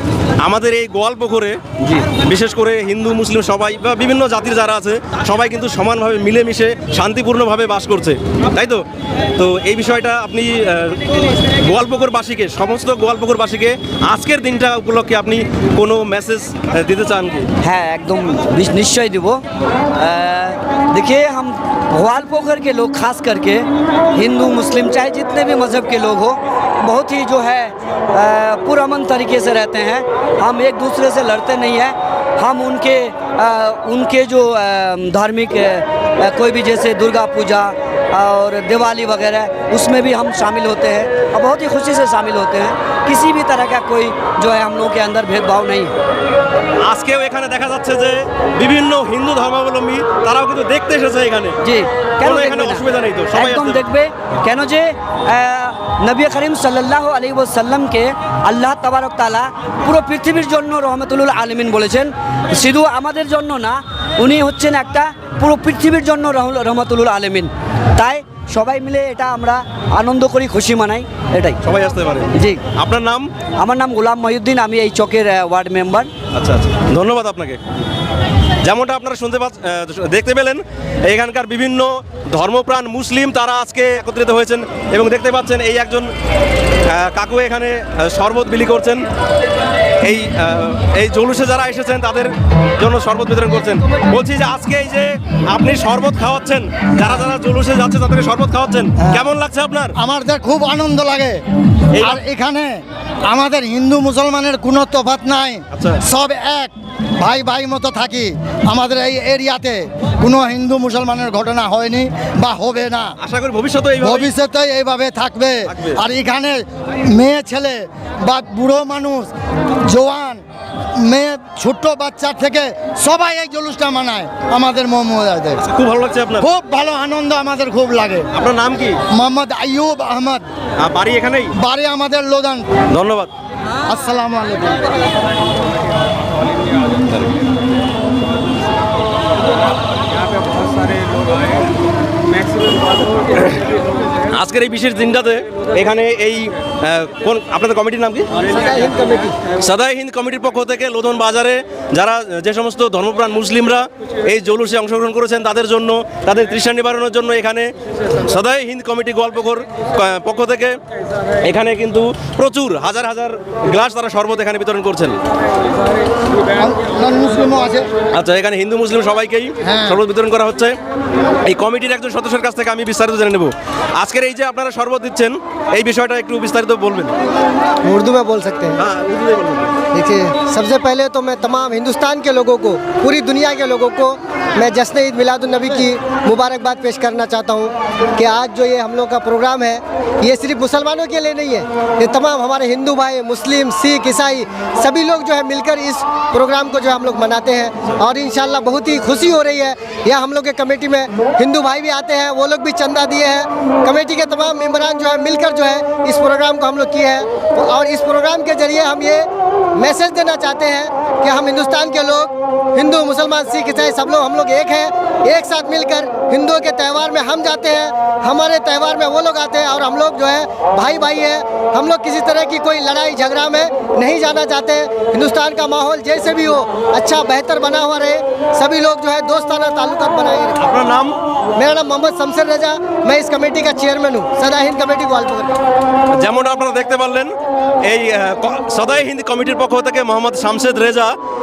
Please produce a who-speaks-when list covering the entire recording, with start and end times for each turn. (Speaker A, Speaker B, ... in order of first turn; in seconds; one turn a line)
Speaker A: 0.4-1.6
Speaker B: 1.8-2.1
Speaker A: 2.2-8.8
Speaker A: 9.4-17.5
Speaker B: 17.6-19.4
Speaker B: 19.9-46.0
Speaker A: 46.8-51.6
Speaker B: 51.6-71.6
Speaker A: 52.2-53.8
Speaker A: 71.6-73.3
Speaker B: 72.3-72.6
Speaker B: 73.6-76.1
Speaker A: 76.3-77.6
Speaker A: 78.6-86.1
Speaker A: 86.9-89.1
Speaker A: 90.0-99.9
Speaker C: 99.0-99.3
Speaker C: 100.0-101.4
Speaker A: 101.9-102.2
Speaker C: 102.0-113.2
Speaker A: 105.7-106.0
Speaker A: 113.2-114.3
Speaker C: 114.0-119.3
Speaker A: 115.7-116.0
Speaker C: 119.8-120.4
Speaker C: 121.0-125.6
Speaker A: 125.6-126.5
Speaker C: 126.4-128.3
Speaker A: 128.3-129.0
Speaker C: 129.1-130.5
Speaker A: 130.8-131.5
Speaker C: 131.6-132.7
Speaker A: 132.9-133.3
Speaker C: 133.9-134.9
Speaker A: 144.3-148.4
Speaker D: 148.5-149.4
Speaker A: 149.6-160.8
Speaker A: 161.4-165.2
Speaker C: 166.6-167.9
Speaker A: 168.1-170.8
Speaker C: 169.6-170.0
Speaker A: 171.4-177.1
Speaker D: 177.8-178.8
Speaker A: 178.8-179.7
Speaker D: 179.9-230.7
Speaker A: 230.6-231.2
Speaker D: 231.6-235.6
Speaker A: 236.1-241.2